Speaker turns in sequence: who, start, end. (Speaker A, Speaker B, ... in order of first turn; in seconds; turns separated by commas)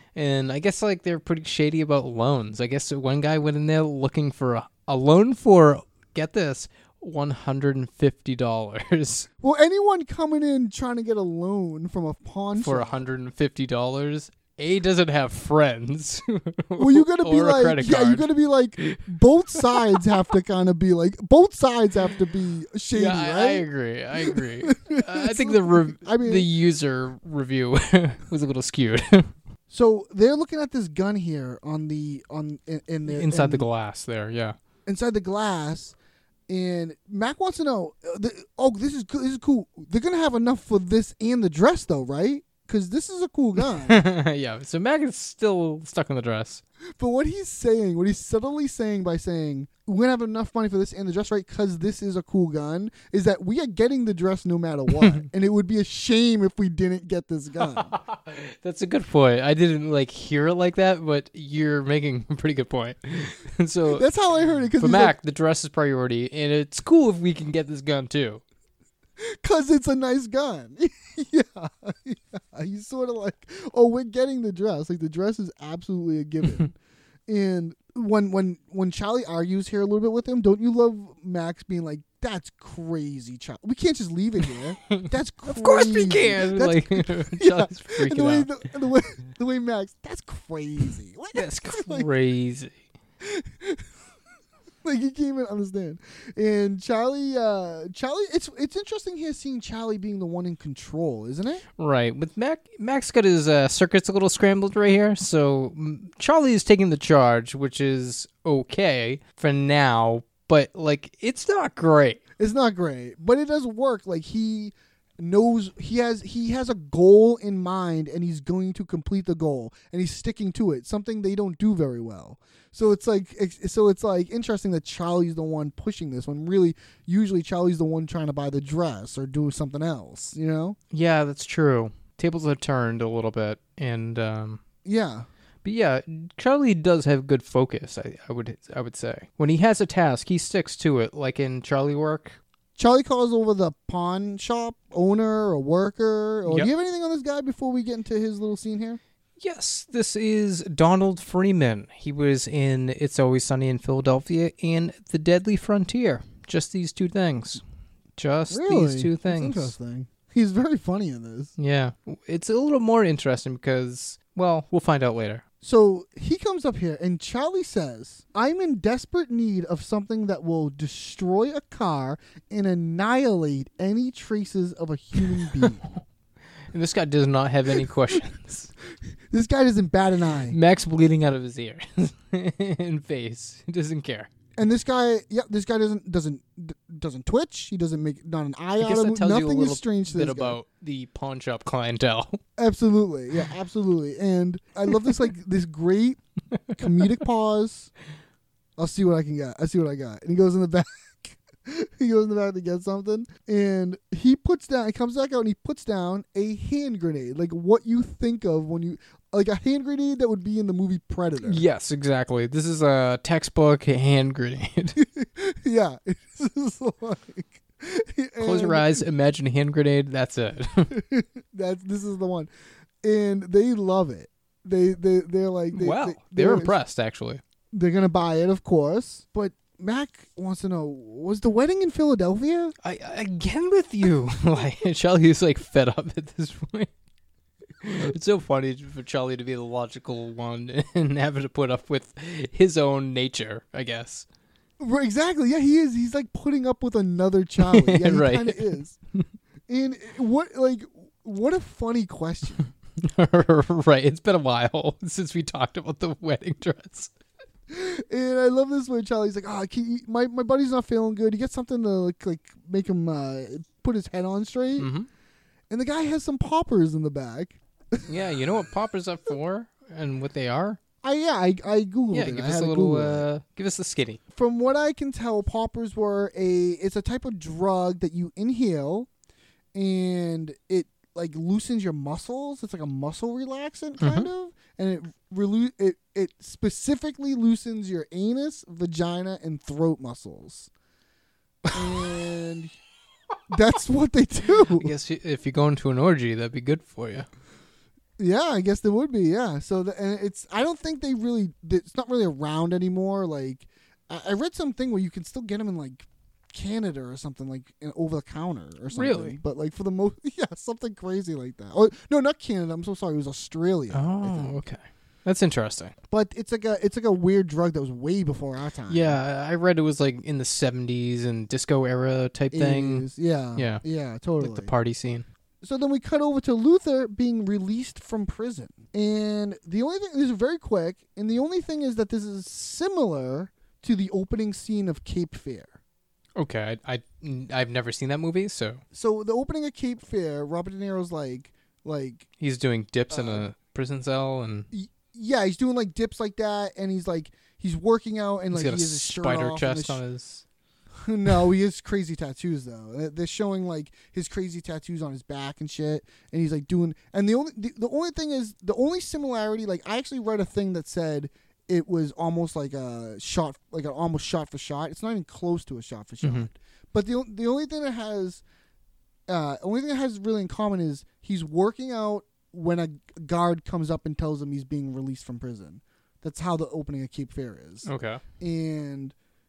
Speaker A: 0.1-9.3, Speaker B: 9.4-13.0, Speaker A: 12.6-19.0, Speaker B: 16.8-23.7, Speaker A: 22.9-29.3, Speaker B: 24.2-26.5, Speaker B: 29.7-33.7, Speaker A: 33.1-34.5, Speaker B: 34.9-36.0, Speaker B: 36.5-44.0, Speaker A: 43.9-46.6, Speaker B: 47.0-58.0, Speaker A: 57.8-64.0, Speaker B: 63.9-65.2, Speaker A: 64.8-68.4, Speaker B: 69.2-76.7, Speaker B: 77.3-92.1, Speaker A: 84.9-88.5, Speaker A: 91.3-92.8, Speaker B: 93.2-93.8, Speaker B: 94.8-101.6, Speaker A: 101.8-112.2, Speaker B: 112.4-130.8, Speaker A: 130.9-134.6, Speaker B: 134.8-135.3, Speaker A: 135.6-142.4, Speaker B: 142.8-149.0, Speaker A: 146.4-146.7, Speaker A: 149.4-157.6, Speaker A: 158.2-159.7, Speaker B: 158.5-161.5, Speaker A: 161.6-165.4, Speaker B: 165.6-175.8, Speaker A: 176.7-178.7, Speaker B: 179.3-180.6, Speaker A: 180.5-184.3, Speaker B: 184.6-190.6, Speaker A: 188.8-192.4, Speaker B: 192.6-196.2, Speaker B: 196.7-197.9, Speaker B: 198.8-211.6, Speaker A: 211.4-215.0, Speaker B: 215.0-219.0, Speaker A: 218.4-220.9, Speaker B: 220.9-222.5, Speaker B: 223.0-226.7, Speaker A: 225.7-227.4, Speaker B: 227.7-232.7, Speaker A: 232.8-236.9, Speaker A: 237.8-244.3, Speaker B: 244.8-249.0, Speaker A: 247.6-249.2, Speaker B: 249.7-252.7, Speaker A: 253.0-257.1, Speaker B: 257.7-264.9, Speaker A: 264.8-265.1, Speaker B: 265.7-268.1, Speaker A: 268.1-270.8, Speaker B: 271.0-273.3, Speaker A: 272.1-274.2, Speaker B: 274.3-279.1, Speaker B: 279.7-290.7, Speaker A: 284.0-284.3, Speaker B: 291.7-292.7, Speaker B: 293.5-294.9, Speaker A: 294.7-297.3, Speaker B: 298.2-314.6, Speaker A: 308.9-309.4, Speaker A: 313.9-315.9, Speaker B: 316.1-319.2, Speaker A: 318.9-323.8, Speaker B: 322.5-324.7, Speaker A: 324.4-325.3, Speaker B: 325.6-335.8, Speaker A: 336.4-338.8, Speaker B: 338.9-342.3, Speaker A: 342.4-344.7, Speaker B: 343.1-343.4, Speaker B: 344.7-350.0, Speaker A: 348.5-350.4, Speaker B: 351.0-368.4, Speaker A: 366.2-366.5, Speaker B: 369.3-377.9, Speaker A: 377.8-378.2, Speaker B: 378.4-379.1